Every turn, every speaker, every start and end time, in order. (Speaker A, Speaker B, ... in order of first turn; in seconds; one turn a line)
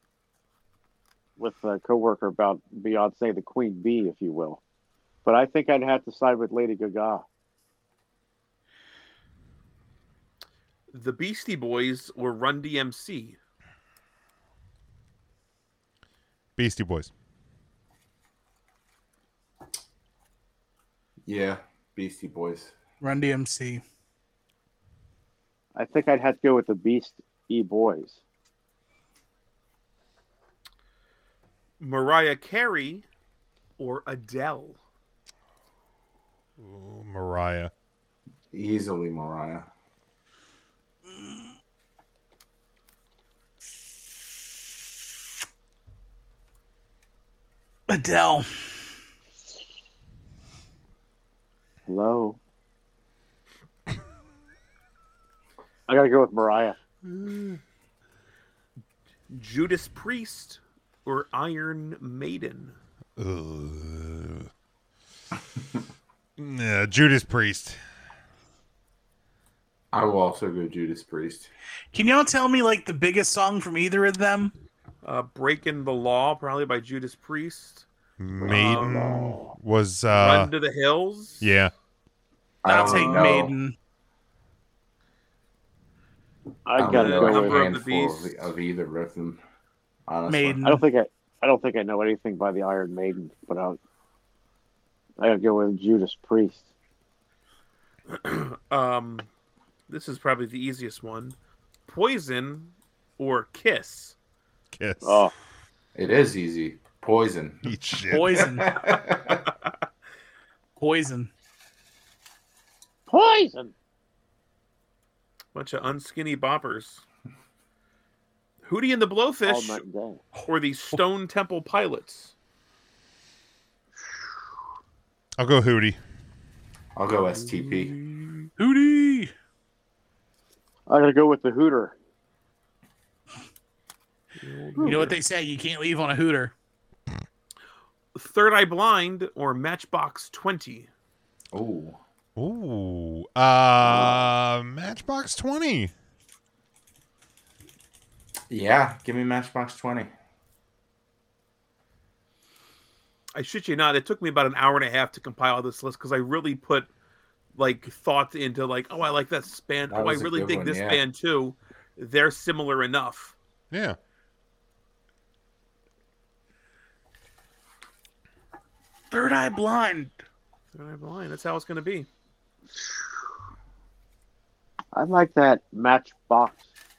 Speaker A: 1.4-4.6
Speaker A: 5.2-7.2
Speaker B: 10.9-13.4
Speaker C: 16.6-17.1
Speaker D: 21.2-22.7
Speaker E: 23.0-23.8
Speaker A: 25.8-28.2
Speaker B: 31.8-33.0
Speaker B: 33.8-34.8
Speaker C: 36.6-37.7
Speaker D: 38.5-39.7
Speaker E: 47.9-48.7
Speaker A: 51.9-52.4
Speaker A: 55.9-56.8
Speaker C: 57.1-57.6
Speaker B: 59.3-62.8
Speaker C: 63.2-64.5
Speaker C: 66.4-67.8
Speaker D: 69.9-71.5
Speaker E: 71.9-74.5
Speaker B: 75.0-77.9
Speaker C: 78.2-80.5
Speaker A: 78.4-79.5
Speaker B: 78.5-79.0
Speaker B: 80.1-81.5
Speaker C: 81.4-81.7
Speaker D: 82.6-83.5
Speaker E: 82.7-83.8
Speaker B: 82.7-83.5
Speaker A: 86.7-87.8
Speaker D: 86.8-89.4
Speaker B: 86.8-88.5
Speaker D: 90.1-90.7
Speaker E: 90.3-90.8
Speaker A: 90.6-93.8
Speaker A: 95.2-96.7
Speaker B: 98.1-99.3
Speaker B: 99.9-101.3
Speaker B: 101.9-104.2
Speaker C: 104.7-105.3
Speaker A: 105.0-105.3
Speaker D: 106.0-107.8
Speaker C: 107.7-108.4
Speaker E: 108.1-108.8
Speaker D: 108.3-109.4
Speaker E: 110.8-111.3
Speaker A: 113.1-113.7
Speaker B: 115.5-117.0
Speaker B: 118.7-119.8
Speaker A: 119.5-120.2
Speaker B: 120.4-122.3
Speaker C: 125.4-126.0
Speaker D: 127.0-127.9
Speaker B: 127.3-128.5
Speaker E: 128.6-129.3
Speaker A: 130.9-131.9
Speaker B: 134.4-135.2
Speaker A: 134.8-135.1
Speaker E: 134.8-136.5
Speaker B: 138.2-140.9
Speaker D: 141.5-142.0
Speaker C: 142.4-145.9
Speaker A: 143.8-144.2
Speaker D: 148.5-150.1
Speaker B: 153.3-156.9
Speaker B: 157.6-163.3
Speaker D: 159.9-161.0
Speaker C: 163.7-164.0
Speaker E: 169.1-170.2
Speaker B: 170.7-172.1
Speaker A: 174.9-176.7